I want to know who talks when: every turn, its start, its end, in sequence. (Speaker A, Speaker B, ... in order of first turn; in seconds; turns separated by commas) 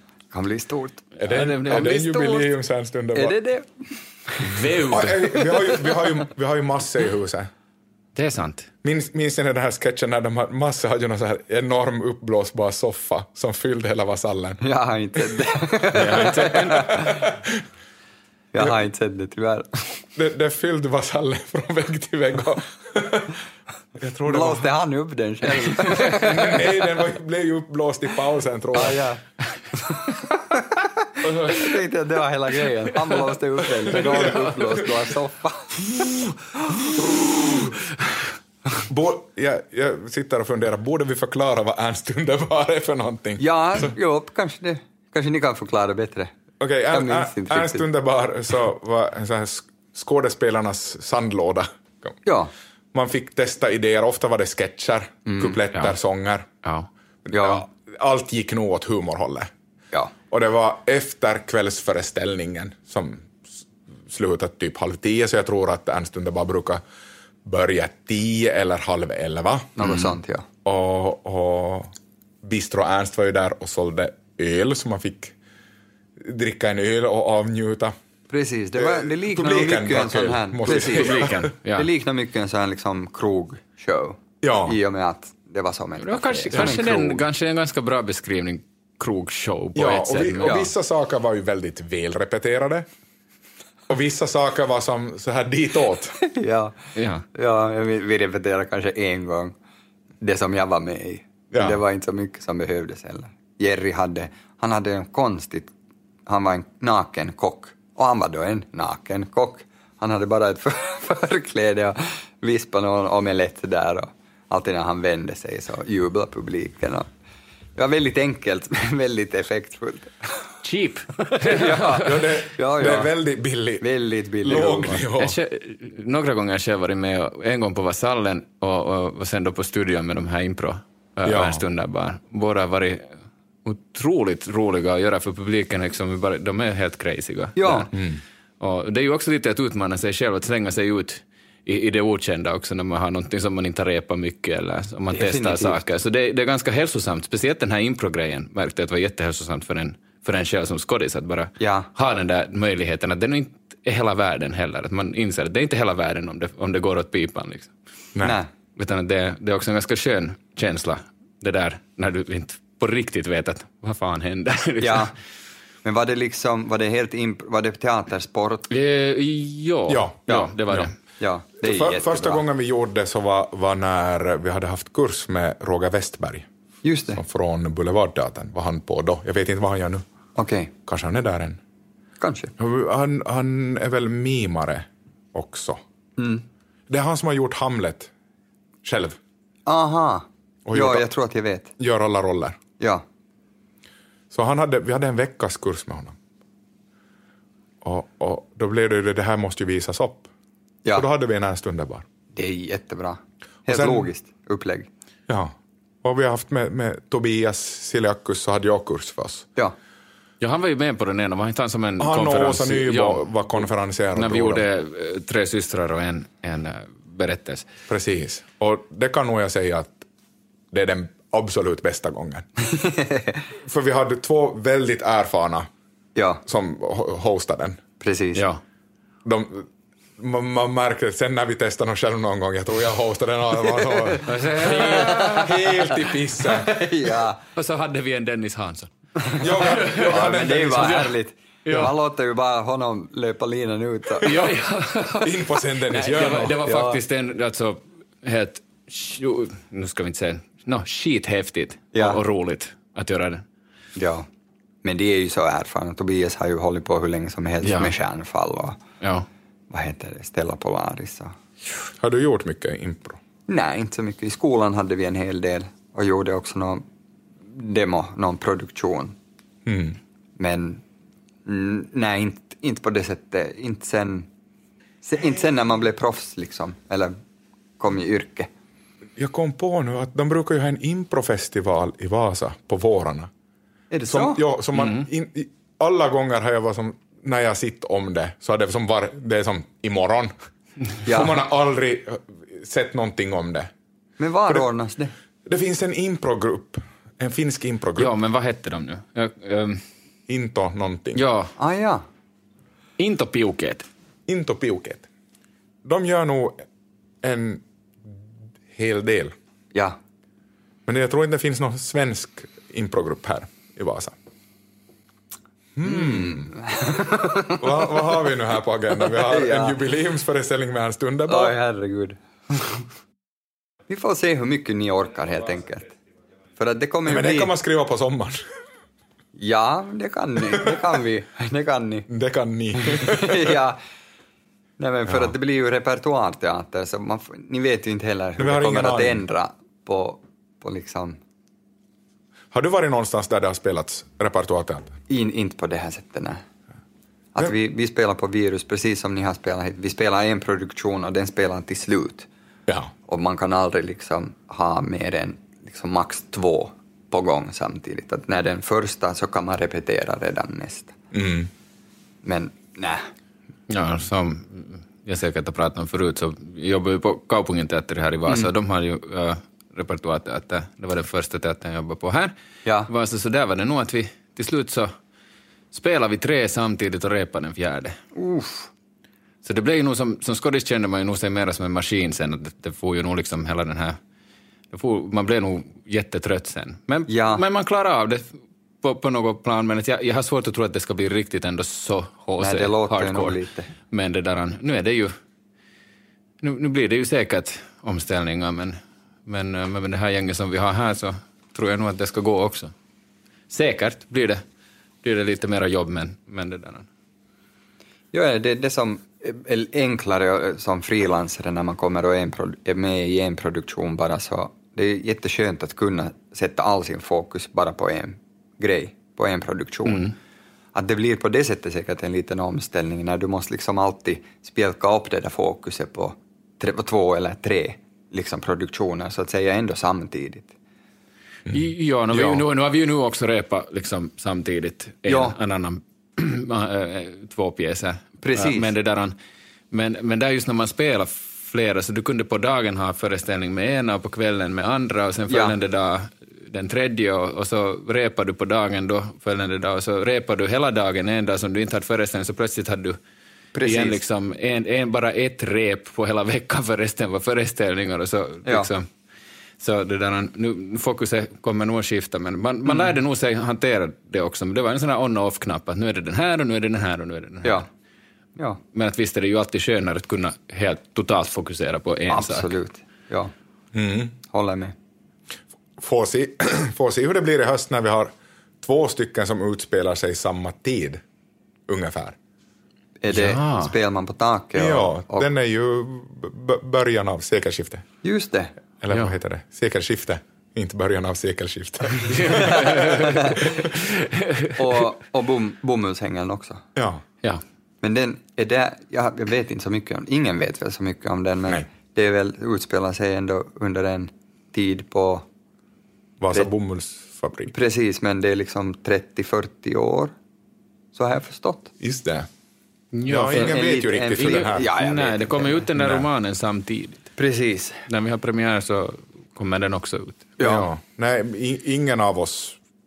Speaker A: 0.3-2.5, Speaker B: 1.2-3.4, Speaker C: 1.2-2.0, Speaker A: 3.1-4.5, Speaker C: 4.4-5.4, Speaker B: 4.9-7.5, Speaker C: 8.1-8.7, Speaker B: 8.8-14.6, Speaker A: 14.6-17.2, Speaker C: 15.9-17.1, Speaker B: 16.0-17.6, Speaker A: 18.5-19.9, Speaker B: 20.1-23.4, Speaker B: 24.0-24.7, Speaker A: 24.3-26.7, Speaker B: 25.9-29.0, Speaker A: 28.7-29.2, Speaker A: 29.8-30.8, Speaker B: 31.2-31.6, Speaker A: 31.4-35.9, Speaker C: 33.9-34.5, Speaker B: 33.9-34.7, Speaker B: 38.8-43.9, Speaker A: 43.4-46.3, Speaker B: 46.6-52.1, Speaker A: 46.9-47.9, Speaker A: 52.2-52.5, Speaker B: 52.9-56.5, Speaker A: 55.3-55.6, Speaker C: 56.6-56.9, Speaker B: 57.3-59.5, Speaker A: 57.3-57.6, Speaker B: 60.3-66.8, Speaker B: 67.4-70.0, Speaker A: 69.8-70.5, Speaker B: 70.6-75.3, Speaker B: 76.2-77.9, Speaker A: 78.3-87.2, Speaker B: 78.8-81.5, Speaker C: 80.7-81.9, Speaker B: 84.4-84.8, Speaker C: 86.0-90.7, Speaker B: 86.5-86.8, Speaker B: 89.7-92.9, Speaker B: 93.9-96.2, Speaker A: 96.2-96.7, Speaker C: 97.0-97.2, Speaker A: 97.3-99.5, Speaker A: 100.2-105.7, Speaker B: 101.5-101.8, Speaker A: 106.3-117.1, Speaker A: 117.8-120.5, Speaker C: 120.6-122.2, Speaker A: 121.3-123.1, Speaker B: 121.9-123.9, Speaker A: 123.8-125.0, Speaker B: 124.4-125.4, Speaker C: 125.1-133.1, Speaker B: 131.2-131.6, Speaker C: 133.6-137.9, Speaker A: 137.6-137.9, Speaker B: 137.9-138.2, Speaker C: 138.6-157.7, Speaker A: 145.1-145.8, Speaker A: 151.6-151.9, Speaker A: 158.2-158.5, Speaker C: 158.8-165.1, Speaker A: 164.8-165.1, Speaker A: 165.8-168.7, Speaker C: 168.7-170.9, Speaker B: 169.9-170.9, Speaker A: 171.2-172.4, Speaker B: 171.6-176.4, Speaker A: 176.8-177.2, Speaker B: 177.2-180.0, Speaker A: 180.4-180.7, Speaker B: 180.9-181.6, Speaker A: 182.2-182.5, Speaker B: 182.6-185.8, Speaker A: 186.2-186.4, Speaker B: 186.9-188.1, Speaker B: 188.8-189.2, Speaker A: 189.7-191.7, Speaker B: 190.7-191.1, Speaker B: 191.8-192.6, Speaker A: 192.8-193.0, Speaker B: 194.3-196.2, Speaker B: 197.8-200.3, Speaker B: 200.9-202.0, Speaker A: 202.3-204.9, Speaker B: 203.7-204.1, Speaker B: 205.3-209.5, Speaker C: 210.4-213.3, Speaker B: 212.0-214.6, Speaker C: 214.1-217.7, Speaker B: 217.9-220.1, Speaker B: 220.7-222.4, Speaker A: 222.8-223.3, Speaker B: 223.6-225.7, Speaker A: 226.1-226.4, Speaker B: 226.4-227.8, Speaker A: 228.0-228.4, Speaker C: 228.3-228.6, Speaker B: 229.2-236.8, Speaker A: 233.8-237.4, Speaker C: 234.2-235.6, Speaker C: 237.5-238.9, Speaker A: 239.2-244.4, Speaker B: 239.4-241.1, Speaker C: 239.5-241.1, Speaker B: 244.2-244.5, Speaker C: 244.2-253.4, Speaker B: 245.2-246.6, Speaker A: 246.5-247.0, Speaker A: 251.9-252.2, Speaker A: 253.9-254.2, Speaker A: 254.8-258.8, Speaker C: 257.6-257.9, Speaker C: 259.0-259.3, Speaker A: 259.7-261.3, Speaker B: 262.0-263.2, Speaker A: 263.5-266.8, Speaker A: 267.5-269.1, Speaker B: 269.6-270.0, Speaker A: 270.4-270.8, Speaker A: 271.4-274.3, Speaker A: 275.0-277.1, Speaker A: 277.8-278.5, Speaker B: 279.2-283.3, Speaker A: 283.9-284.4, Speaker B: 284.1-290.3, Speaker C: 284.8-285.0, Speaker B: 291.0-293.7, Speaker A: 291.1-291.4, Speaker A: 294.2-295.1, Speaker B: 295.4-298.1, Speaker C: 298.0-299.8, Speaker B: 300.3-301.2, Speaker C: 301.1-301.5, Speaker A: 301.6-302.0, Speaker C: 303.0-303.9, Speaker B: 304.3-305.1, Speaker B: 305.9-306.6, Speaker B: 307.2-307.6, Speaker B: 308.7-309.3, Speaker B: 310.9-314.1, Speaker B: 315.8-316.6, Speaker A: 315.9-317.6, Speaker B: 317.5-321.5, Speaker A: 319.1-319.8, Speaker A: 321.3-322.2, Speaker A: 323.9-325.9, Speaker A: 326.6-327.5, Speaker B: 327.1-328.4, Speaker A: 329.4-332.1, Speaker B: 332.1-333.5, Speaker A: 332.9-333.8, Speaker A: 334.8-341.2, Speaker B: 338.4-339.2, Speaker B: 342.5-344.9, Speaker A: 345.1-346.4, Speaker A: 347.4-352.3, Speaker A: 353.1-360.9, Speaker B: 361.1-361.5, Speaker A: 362.2-363.0, Speaker C: 363.7-372.3, Speaker A: 372.6-372.9, Speaker C: 372.9-374.9, Speaker C: 375.7-378.0, Speaker A: 378.1-378.7, Speaker C: 379.4-384.0, Speaker C: 384.7-393.4, Speaker A: 387.1-387.4, Speaker A: 392.4-393.7, Speaker C: 393.9-395.1, Speaker C: 396.4-402.7, Speaker C: 403.5-404.4, Speaker C: 405.0-406.9, Speaker A: 408.1-420.1, Speaker C: 419.9-420.1, Speaker A: 420.7-430.5, Speaker B: 431.5-432.4, Speaker C: 431.5-439.1, Speaker A: 435.1-435.4, Speaker A: 438.2-438.7, Speaker C: 439.7-453.0, Speaker A: 445.3-445.6, Speaker A: 453.5-454.0, Speaker C: 453.6-458.9, Speaker A: 458.4-458.7, Speaker C: 459.6-467.7, Speaker C: 468.7-472.5, Speaker A: 472.1-473.3, Speaker B: 473.7-474.1, Speaker A: 474.3-474.7, Speaker B: 475.8-478.1, Speaker B: 478.6-481.0, Speaker B: 481.7-482.2, Speaker A: 483.0-485.3, Speaker C: 483.1-483.7, Speaker B: 484.6-487.9, Speaker A: 488.0-488.5, Speaker B: 488.8-493.4, Speaker C: 492.1-494.8, Speaker A: 492.8-493.5, Speaker A: 494.6-496.6, Speaker B: 496.8-497.0, Speaker A: 497.8-505.2, Speaker B: 506.2-507.5, Speaker A: 507.5-510.1, Speaker A: 510.9-511.7, Speaker B: 511.8-512.3, Speaker C: 512.9-513.6, Speaker B: 513.0-514.7, Speaker A: 513.3-515.7, Speaker C: 514.2-517.1, Speaker B: 515.8-516.0, Speaker A: 517.2-517.9, Speaker C: 517.9-520.5, Speaker A: 520.4-520.7, Speaker B: 520.4-522.6